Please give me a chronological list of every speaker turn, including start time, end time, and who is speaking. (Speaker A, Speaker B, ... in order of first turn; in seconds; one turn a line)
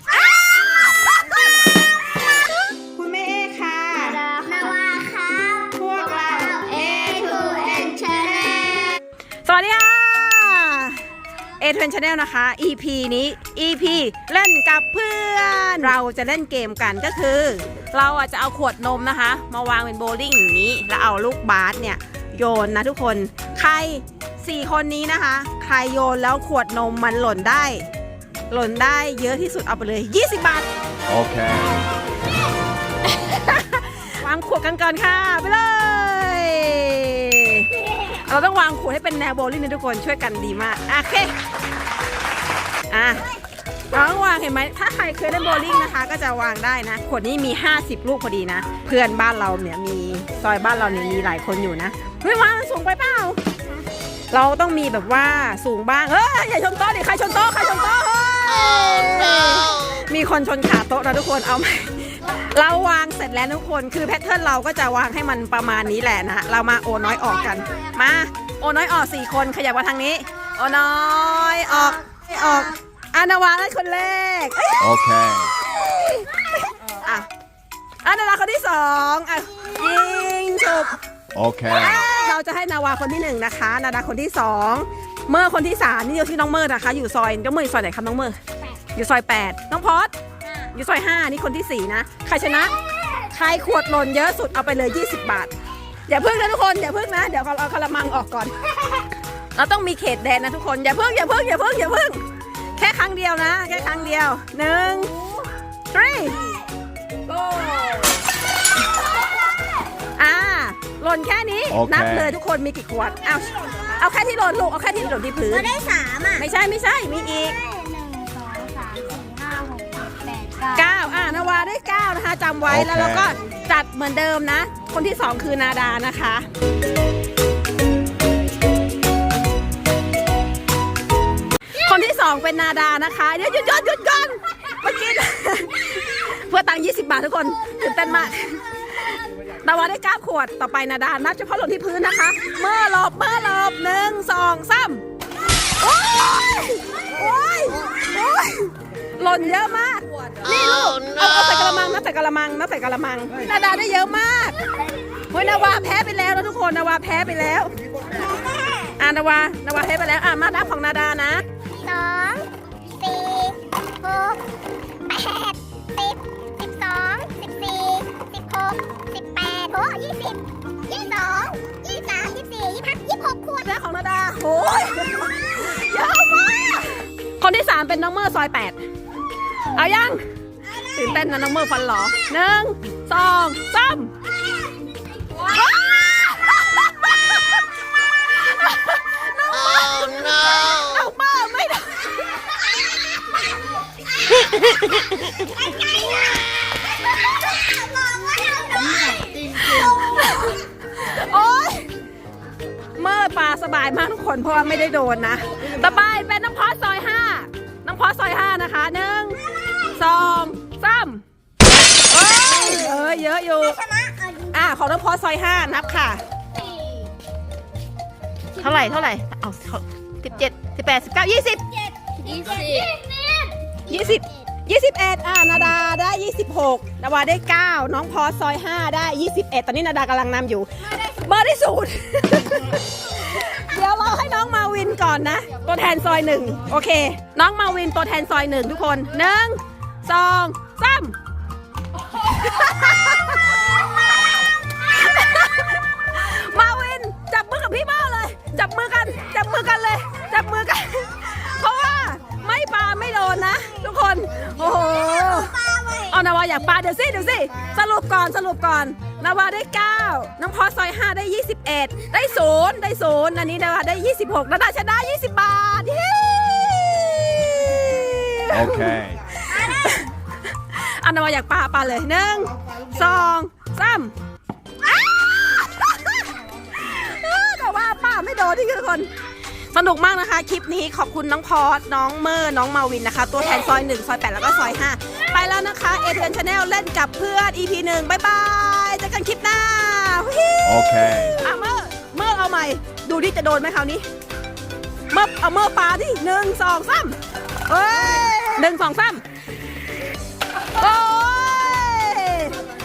Speaker A: 0.4-0.8
Speaker A: 2.9-4.2
Speaker B: 3.9-9.0
Speaker A: 5.8-7.3
Speaker A: 9.4-11.0
Speaker A: 11.6-27.9
Speaker A: 28.5-30.7
Speaker C: 31.1-31.7
Speaker A: 33.1-41.3
Speaker A: 42.9-43.3
Speaker A: 43.9-53.4
Speaker A: 54.3-75.0
Speaker B: 67.6-67.9
Speaker C: 74.8-75.5
Speaker A: 75.6-77.3
Speaker A: 78.0-81.0
Speaker C: 81.3-82.1
Speaker A: 81.7-88.4
Speaker A: 88.9-90.1
Speaker A: 90.7-92.7
Speaker A: 93.2-95.5
Speaker A: 96.1-98.5
Speaker A: 99.5-102.2
Speaker A: 102.8-105.2
Speaker A: 105.9-106.4
Speaker A: 107.3-108.2
Speaker A: 110.2-115.7
Speaker C: 111.7-112.4
Speaker B: 115.5-116.5
Speaker A: 116.3-117.6
Speaker B: 117.5-120.8
Speaker A: 120.7-126.5
Speaker C: 122.7-123.3
Speaker A: 131.8-145.0
Speaker A: 145.8-154.6
Speaker A: 155.3-157.7
Speaker B: 158.3-158.8
Speaker A: 159.0-161.4
Speaker B: 161.7-162.5
Speaker B: 163.0-164.4
Speaker B: 165.1-173.7
Speaker A: 173.6-178.8
Speaker A: 179.7-180.2
Speaker A: 180.8-184.1
Speaker A: 185.4-187.4
Speaker A: 188.3-192.5
Speaker B: 195.4-196.1
Speaker B: 197.5-199.9
Speaker A: 199.6-201.9
Speaker A: 203.0-211.2
Speaker A: 212.0-213.8
Speaker B: 212.3-213.1
Speaker B: 213.6-214.5
Speaker A: 214.5-216.2
Speaker B: 216.5-217.1
Speaker A: 218.6-221.7
Speaker B: 218.6-219.0
Speaker B: 222.0-224.3
Speaker A: 222.6-222.8
Speaker A: 223.9-241.1
Speaker A: 242.2-243.6
Speaker A: 244.8-255.6
Speaker B: 254.8-256.2
Speaker A: 256.1-274.1
Speaker C: 268.5-269.2
Speaker A: 275.0-276.2
Speaker A: 276.7-279.1
Speaker A: 279.7-294.0
Speaker C: 290.6-291.4
Speaker A: 295.1-299.2
Speaker A: 300.7-302.6